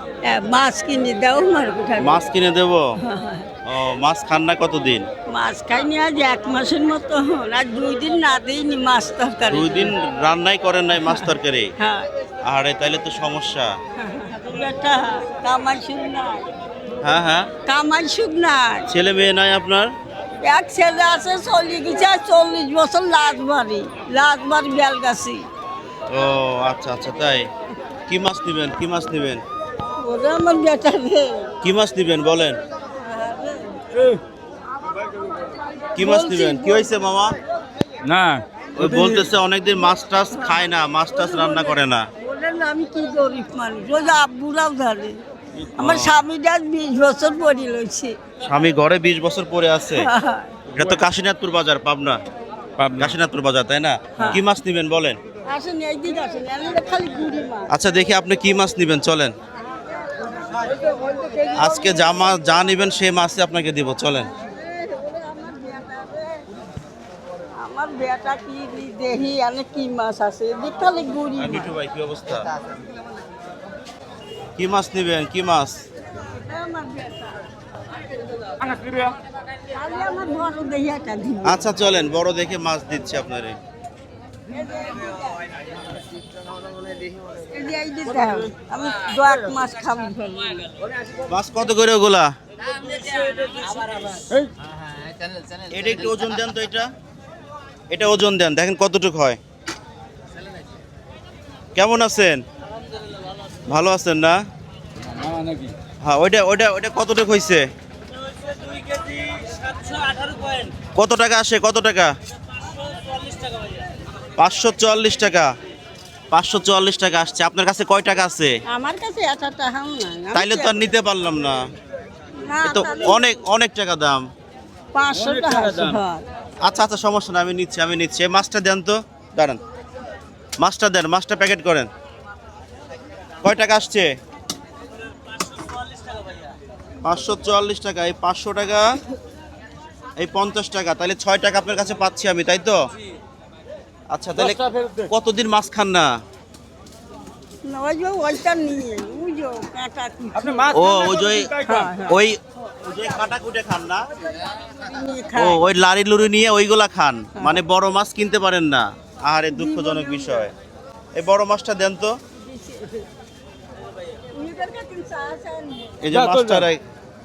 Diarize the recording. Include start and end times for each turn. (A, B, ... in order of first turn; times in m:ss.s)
0:00.2-0:02.2 A
0:02.0-0:02.8 B
0:03.0-0:03.5 A
0:03.7-0:05.1 B
0:05.3-0:09.9 A
0:09.5-0:11.7 B
0:11.0-0:12.1 A
0:12.5-0:13.7 B
0:14.0-0:16.5 A
0:17.0-0:17.5 B
0:17.7-0:18.9 A
0:18.9-0:19.9 B
0:20.4-0:25.5 A
0:26.1-0:27.5 B
0:28.1-0:29.4 B
0:30.0-0:31.5 A
0:31.6-0:32.6 B
0:33.0-0:33.8 A
0:33.9-0:34.2 C
0:35.0-0:35.3 C
0:35.9-0:37.0 A
0:36.0-0:37.4 B
0:38.0-0:39.2 C
0:38.8-0:42.0 B
0:40.3-0:45.2 A
0:45.8-0:48.2 A
0:45.8-0:46.2 B
0:48.4-0:50.1 B
0:49.9-0:50.6 A
0:50.8-0:52.2 B
0:52.8-0:53.2 C
0:53.0-0:55.2 B
0:54.2-0:54.4 A
0:55.5-0:57.7 A
0:57.7-0:59.3 B
0:59.7-1:02.3 A
1:01.6-1:04.3 B
1:04.2-1:06.4 A
1:07.6-1:11.7 A
1:11.4-1:12.4 B
1:14.6-1:15.8 B
1:16.3-1:17.5 A
1:18.6-1:19.2 C
1:19.7-1:21.7 A
1:21.4-1:23.6 B
1:24.5-1:25.4 A
1:27.4-1:30.8 A
1:31.2-1:32.3 B
1:33.1-1:33.5 C
1:34.3-1:34.5 C
1:35.7-1:36.9 B
1:37.9-1:39.4 B
1:41.8-1:42.4 B
1:43.7-1:44.4 B
1:45.1-1:45.8 C
1:46.0-1:47.7 B
1:48.6-1:50.6 C
1:50.8-1:52.1 B
1:54.4-1:55.5 B
1:56.3-1:58.6 B
1:58.7-2:00.9 A
2:00.3-2:01.6 B
2:02.4-2:03.4 A
2:02.6-2:04.3 B
2:04.9-2:06.2 A
2:05.2-2:06.0 C
2:06.6-2:09.6 B
2:10.6-2:11.9 B
2:13.4-2:14.1 B
2:17.0-2:19.0 B
2:20.2-2:22.8 B
2:24.1-2:26.1 B
2:24.4-2:25.1 C
2:27.6-2:31.0 A
2:30.4-2:31.9 C
2:30.7-2:34.1 B
2:31.6-2:32.2 A
2:34.5-2:35.6 A
2:35.4-2:40.5 B
2:39.5-2:40.5 A
2:41.2-2:42.2 B
2:42.4-2:43.1 A
2:44.3-2:46.0 A
2:46.0-2:46.8 B
2:46.1-2:46.7 C